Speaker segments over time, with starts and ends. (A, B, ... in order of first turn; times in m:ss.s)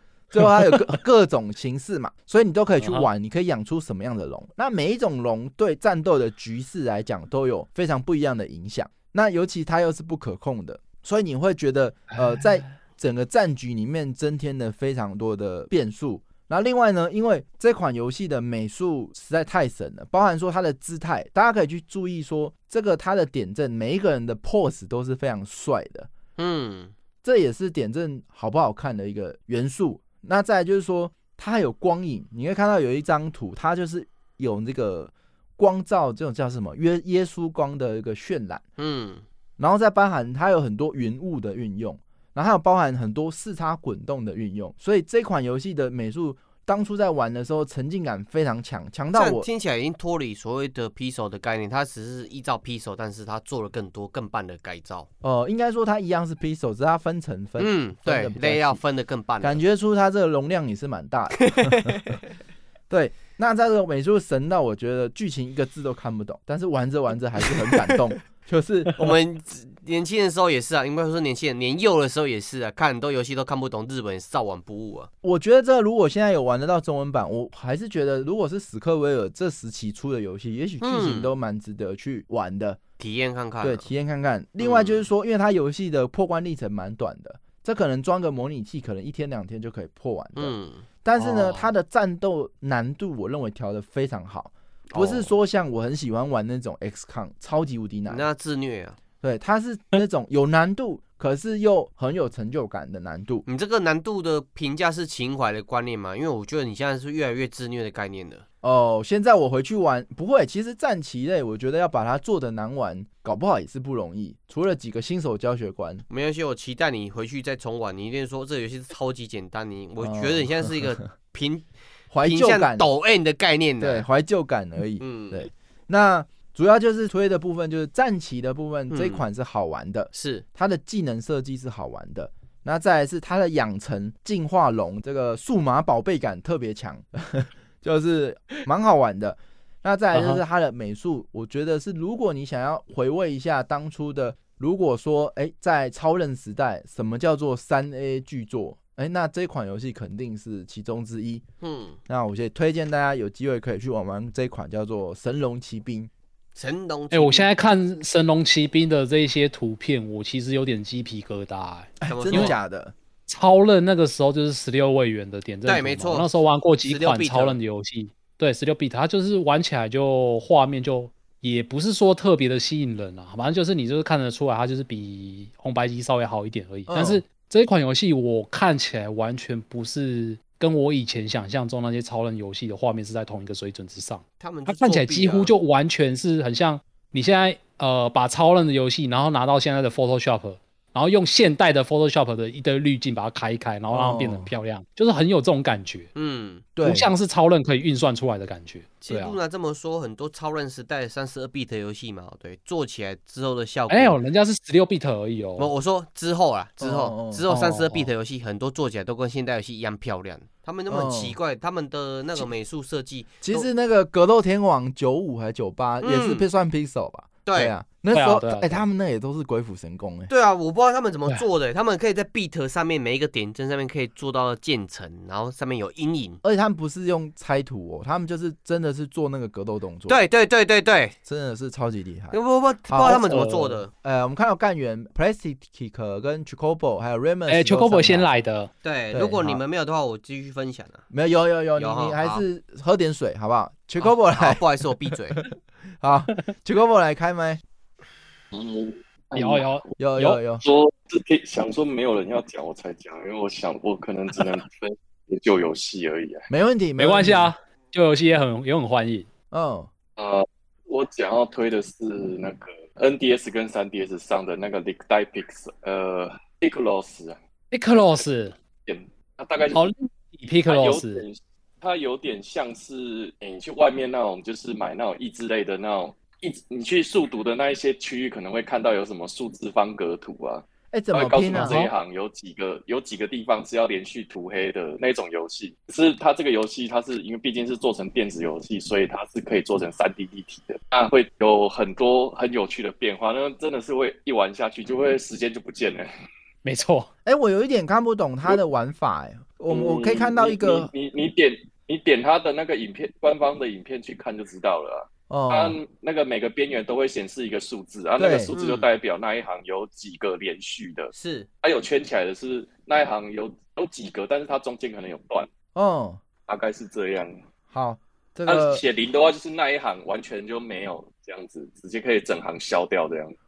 0:00.3-0:26.1 A
0:02.8-0:03.1 B
0:12.1-0:12.7 B
0:26.4-0:26.9 C
0:27.2-0:38.6 A
0:38.8-0:39.2 C
0:39.6-0:49.5 A
0:49.1-0:55.1 C
0:55.2-0:58.8 A
0:57.6-0:59.6 C
0:59.4-1:02.2 A
1:01.4-1:02.2 C
1:02.9-1:09.1 A
1:09.0-1:15.1 C
1:15.2-1:22.8 A
1:20.8-1:21.3 C
1:23.0-1:23.9 C
1:23.6-1:38.3 A
1:24.6-1:25.1 C
1:30.4-1:30.9 C
1:31.2-1:31.6 B
1:34.9-1:35.3 C
1:38.1-1:39.0 C
1:39.2-1:43.4 A
1:43.4-1:48.4 C
1:48.6-1:56.0 A
1:56.1-2:01.7 C
2:00.0-2:00.9 A
2:02.1-2:02.9 A
2:02.2-2:04.1 C
2:03.8-2:31.4 A
2:05.0-2:05.5 C
2:08.9-2:09.2 C
2:10.1-2:10.4 C
2:20.1-2:20.4 B
2:31.6-2:32.0 C
2:32.1-2:36.1 A
2:36.6-2:37.5 C
2:37.1-2:42.6 B
2:42.0-2:42.9 A
2:42.1-2:42.6 C
2:43.3-3:16.1 B
2:45.6-2:46.3 C
2:46.8-2:47.6 C
2:56.9-2:57.2 A
3:04.4-3:05.5 C
3:13.9-3:14.5 A
3:16.1-3:16.6 C
3:16.8-3:17.1 A
3:16.8-3:19.4 B
3:19.0-3:24.2 C
3:23.9-3:25.7 B
3:25.6-3:33.7 C
3:26.8-3:27.5 A
3:27.5-3:28.1 B
3:30.9-3:31.4 A
3:33.4-3:40.3 A
3:36.0-3:36.4 C
3:37.4-3:37.7 C
3:38.1-3:38.8 B
3:40.3-3:46.4 C
3:46.4-3:50.2 A
3:50.1-3:51.2 C
3:51.3-3:53.3 A
3:52.3-3:53.9 C
3:53.0-3:53.8 B
3:54.0-3:58.3 A
3:57.5-3:58.7 B
3:58.8-4:01.0 C
3:59.1-3:59.6 A
4:01.1-4:04.6 A
4:01.8-4:02.4 C
4:04.0-4:05.4 C
4:06.0-4:07.6 A
4:08.5-4:09.8 D
4:09.3-4:10.4 B
4:10.0-4:10.6 A
4:10.6-4:16.5 D
4:16.5-4:17.5 A
4:17.0-4:19.3 B
4:19.5-4:19.9 A
4:20.2-4:27.4 D
4:27.7-4:28.6 B
4:27.9-4:29.9 D
4:29.7-4:31.2 B
4:30.7-4:56.1 D
4:40.9-4:41.8 A
4:41.5-4:41.9 B
4:56.6-4:57.1 B
4:57.2-5:00.9 A
4:59.7-5:11.1 D
5:05.3-5:05.8 A
5:08.2-5:08.5 A
5:08.5-5:08.9 C
5:11.1-5:11.5 C
5:11.6-5:15.5 D
5:15.8-5:16.2 A
5:16.5-5:17.4 D
5:17.7-5:18.8 A
5:18.4-5:23.4 D